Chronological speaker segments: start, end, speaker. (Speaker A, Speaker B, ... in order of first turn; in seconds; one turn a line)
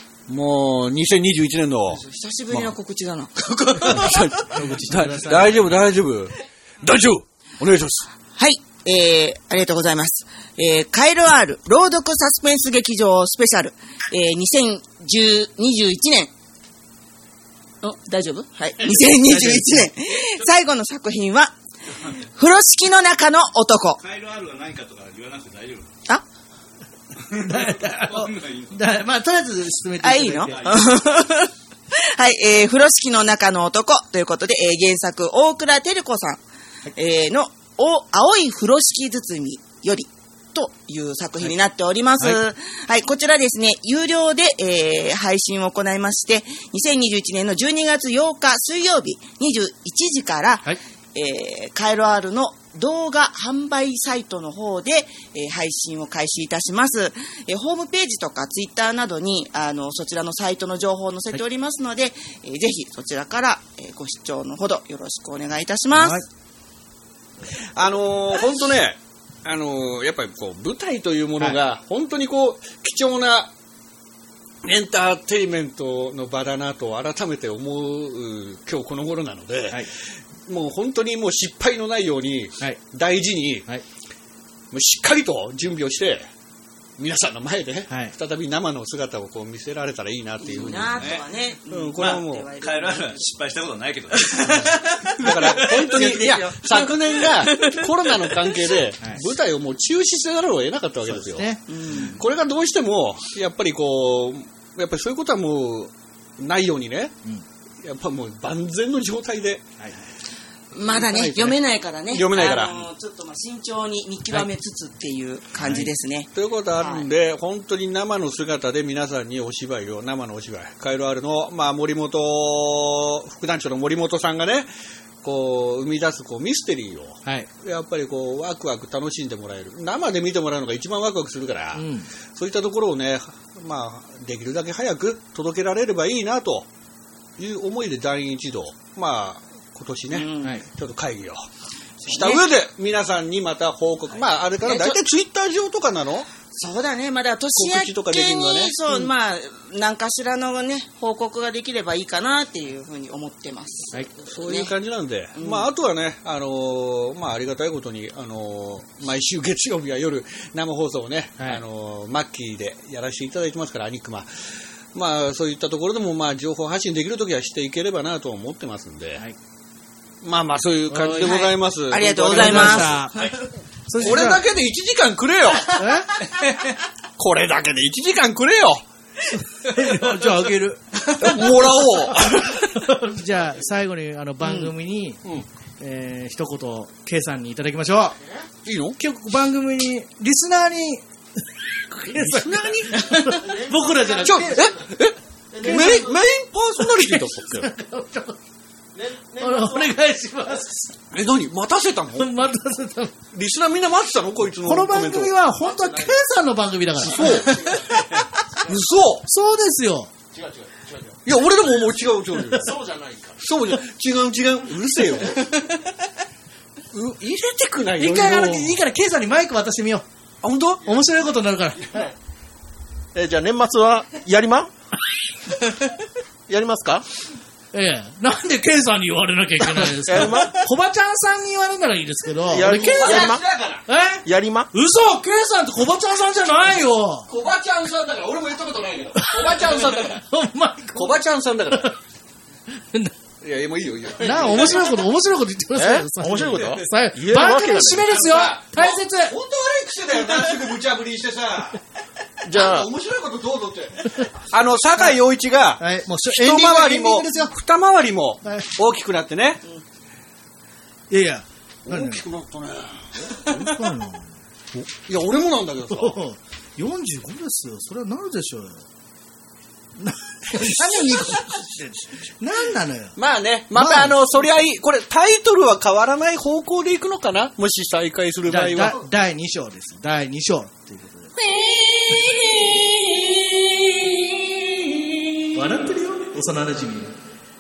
Speaker A: 0.3-2.8
Speaker B: 1.9-4.3
Speaker A: 3.8-8.1
Speaker C: 3.9-5.8
Speaker B: 8.4-16.3
Speaker B: 17.8-21.5
Speaker C: 19.0-19.9
Speaker B: 22.2-24.0
Speaker D: 24.0-25.9
Speaker D: 27.3-28.8
Speaker C: 27.3-30.6
Speaker B: 30.0-36.4
Speaker D: 30.5-31.0
Speaker B: 37.0-66.2
Speaker C: 65.9-66.3
Speaker A: 67.8-73.5
Speaker A: 74.6-83.7
Speaker A: 84.7-86.3
Speaker A: 87.0-91.1
Speaker B: 90.4-93.2
Speaker D: 90.7-91.3
Speaker A: 91.7-92.5
Speaker D: 92.0-95.8
Speaker A: 95.2-107.2
Speaker C: 95.9-96.5
Speaker C: 101.0-102.2
Speaker B: 101.7-102.2
Speaker A: 107.8-109.7
Speaker C: 109.8-110.1
Speaker B: 110.7-117.1
Speaker A: 110.9-112.9
Speaker C: 115.6-115.9
Speaker A: 116.3-124.7
Speaker A: 125.2-136.7
Speaker C: 131.8-132.1
Speaker A: 137.4-141.5
Speaker B: 140.1-140.6
Speaker A: 142.0-146.3
Speaker B: 142.1-142.5
Speaker B: 144.6-145.0
Speaker B: 146.5-154.7
Speaker A: 147.6-149.1
Speaker A: 154.3-169.2
Speaker B: 155.3-155.7
Speaker A: 170.2-173.0
Speaker C: 170.9-171.3
Speaker B: 171.1-173.4
Speaker C: 172.1-173.3
Speaker C: 173.9-174.4
Speaker A: 174.0-175.8
Speaker C: 175.7-176.2
Speaker A: 177.2-178.8
Speaker C: 179.5-181.7
Speaker A: 181.1-182.8
Speaker C: 182.7-185.2
Speaker C: 185.8-188.2
Speaker A: 188.6-189.0
Speaker C: 189.0-191.0
Speaker C: 191.9-194.8
Speaker A: 192.1-193.4
Speaker E: 193.3-194.7
Speaker A: 194.2-197.7
Speaker E: 195.5-196.2
Speaker C: 195.6-196.1
Speaker C: 196.8-198.4
Speaker E: 198.9-199.9
Speaker C: 199.4-200.9
Speaker A: 201.1-202.3
Speaker C: 202.2-203.1
Speaker A: 203.3-205.3
Speaker C: 204.6-208.0
Speaker A: 207.0-207.7
Speaker D: 207.6-208.1
Speaker A: 208.6-209.3
Speaker C: 209.2-210.1
Speaker D: 210.4-211.0
Speaker A: 211.2-212.8
Speaker C: 212.5-212.8
Speaker E: 212.9-213.3
Speaker A: 213.4-215.6
Speaker A: 216.9-218.8
Speaker C: 218.0-220.1
Speaker A: 220.4-220.9
Speaker C: 220.8-222.1
Speaker E: 223.2-224.7
Speaker E: 226.5-227.1
Speaker C: 227.7-233.3
Speaker E: 230.1-230.6
Speaker E: 232.5-233.4
Speaker A: 232.6-233.8
Speaker C: 233.9-237.3
Speaker E: 234.2-234.7
Speaker A: 237.3-240.2
Speaker C: 239.2-239.7
Speaker C: 240.2-242.0
Speaker A: 240.9-241.9
Speaker A: 243.4-245.0
Speaker C: 244.2-249.4
Speaker E: 245.8-248.2
Speaker A: 246.4-246.8
Speaker A: 247.5-251.8
Speaker A: 252.4-259.6
Speaker E: 252.5-252.9
Speaker C: 255.8-257.5
Speaker C: 258.4-258.7
Speaker C: 261.1-262.2
Speaker A: 261.9-263.9
Speaker C: 263.2-264.4
Speaker A: 264.8-266.2
Speaker C: 265.9-268.9
Speaker C: 270.0-273.2
Speaker A: 270.5-271.6
Speaker A: 273.2-279.1
Speaker C: 273.7-274.2
Speaker C: 278.5-281.3
Speaker A: 281.4-285.5
Speaker C: 285.5-287.2